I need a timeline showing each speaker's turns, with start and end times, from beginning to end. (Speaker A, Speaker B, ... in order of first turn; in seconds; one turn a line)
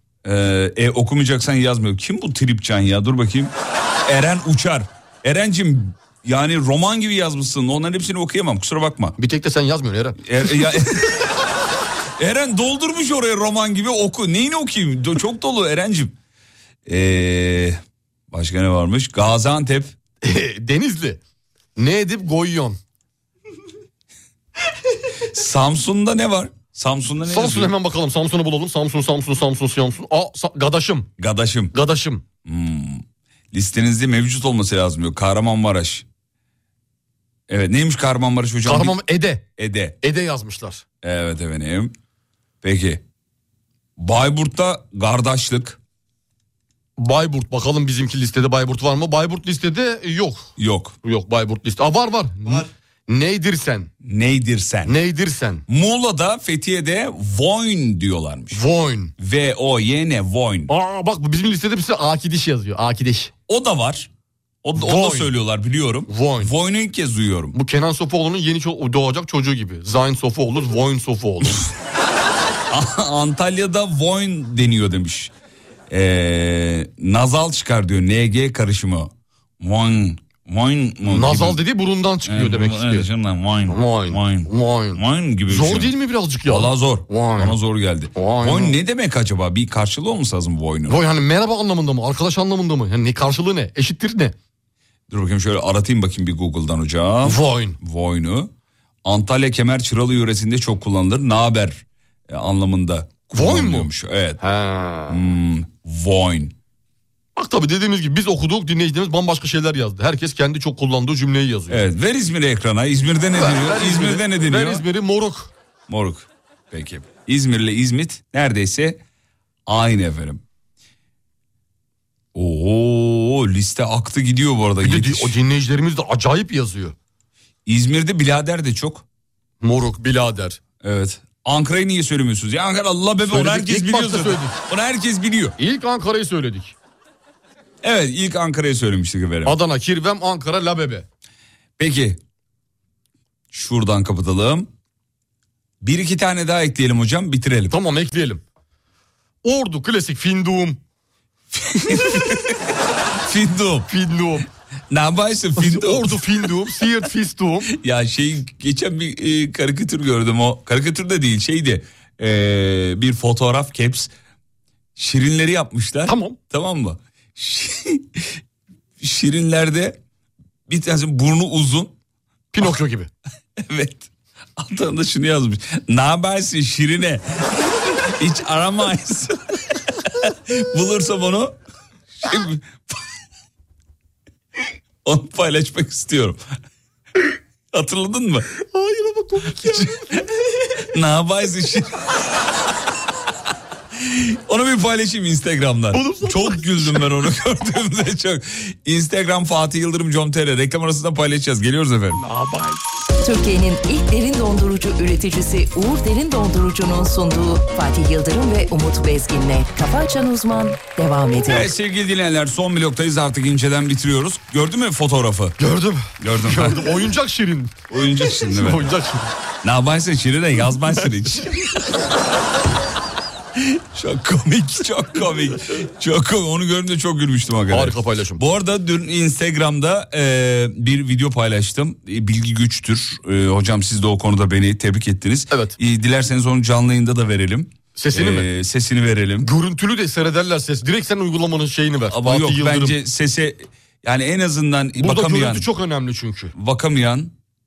Speaker A: 0.2-3.5
Speaker A: 4.1-9.2
Speaker B: 9.2-10.7
Speaker A: 10.2-11.3
Speaker A: 12.2-16.1
Speaker A: 16.9-17.8
Speaker A: 18.3-19.9
Speaker B: 20.2-21.2
Speaker B: 21.8-22.8
Speaker A: 25.3-27.7
Speaker B: 27.3-31.1
Speaker A: 31.2-31.7
Speaker B: 31.7-32.2
Speaker A: 32.4-36.0
Speaker A: 37.5-39.0
Speaker B: 38.6-39.5
Speaker A: 39.6-40.0
Speaker B: 40.0-40.8
Speaker A: 41.0-41.9
Speaker A: 42.6-43.0
Speaker A: 44.0-45.8
Speaker B: 47.0-50.5
Speaker A: 50.6-50.9
Speaker B: 51.0-53.9
Speaker A: 54.0-54.9
Speaker B: 54.9-55.6
Speaker A: 55.7-58.6
Speaker B: 58.5-59.1
Speaker A: 59.2-60.7
Speaker B: 60.7-63.3
Speaker A: 63.5-64.1
Speaker A: 64.6-67.5
Speaker B: 64.8-65.3
Speaker B: 66.1-66.5
Speaker B: 67.5-71.6
Speaker A: 72.7-75.3
Speaker A: 75.9-81.6
Speaker B: 81.1-83.1
Speaker A: 82.2-85.9
Speaker B: 83.7-87.6
Speaker A: 86.5-91.0
Speaker B: 88.1-88.8
Speaker B: 90.9-94.3
Speaker A: 95.1-98.5
Speaker B: 97.2-97.8
Speaker A: 99.0-104.4
Speaker B: 103.3-103.9
Speaker B: 104.4-105.2
Speaker A: 105.1-106.5
Speaker B: 107.3-111.8
Speaker A: 111.7-114.8
Speaker B: 113.4-115.5
Speaker A: 115.9-119.0
Speaker A: 119.7-120.4
Speaker A: 122.3-125.4
Speaker B: 124.8-126.9
Speaker A: 127.7-129.0
Speaker B: 129.6-130.6
Speaker A: 130.8-135.5
Speaker B: 133.3-134.6
Speaker B: 135.6-136.7
Speaker A: 137.8-139.6
Speaker B: 139.4-141.1
Speaker A: 141.8-142.2
Speaker A: 143.5-144.7
Speaker A: 145.8-147.7
Speaker B: 147.7-148.4
Speaker B: 149.4-150.8
Speaker A: 151.5-152.6
Speaker A: 153.2-153.9
Speaker B: 153.9-154.4
Speaker A: 154.9-156.2
Speaker B: 155.6-157.7
Speaker A: 157.7-164.1
Speaker A: 164.9-168.3
Speaker B: 166.1-166.4
Speaker A: 169.0-170.0
Speaker A: 170.7-171.9
Speaker B: 172.5-173.1
Speaker A: 173.6-181.5
Speaker A: 182.2-183.0
Speaker A: 185.0-186.4
Speaker A: 187.7-188.5
Speaker B: 188.6-190.2
Speaker A: 189.6-190.0
Speaker A: 190.9-192.1
Speaker A: 194.0-202.2
Speaker B: 195.9-197.1
Speaker B: 202.2-202.8
Speaker C: 203.2-211.7
Speaker A: 211.5-215.6
Speaker B: 215.6-219.3
Speaker A: 216.2-216.9
Speaker A: 217.9-218.9
Speaker A: 219.6-221.6
Speaker A: 223.9-239.5
Speaker B: 227.7-228.4
Speaker B: 235.5-235.8
Speaker B: 237.9-238.5
Speaker B: 239.4-243.0
Speaker A: 242.1-245.7
Speaker B: 245.0-246.5
Speaker A: 246.5-247.3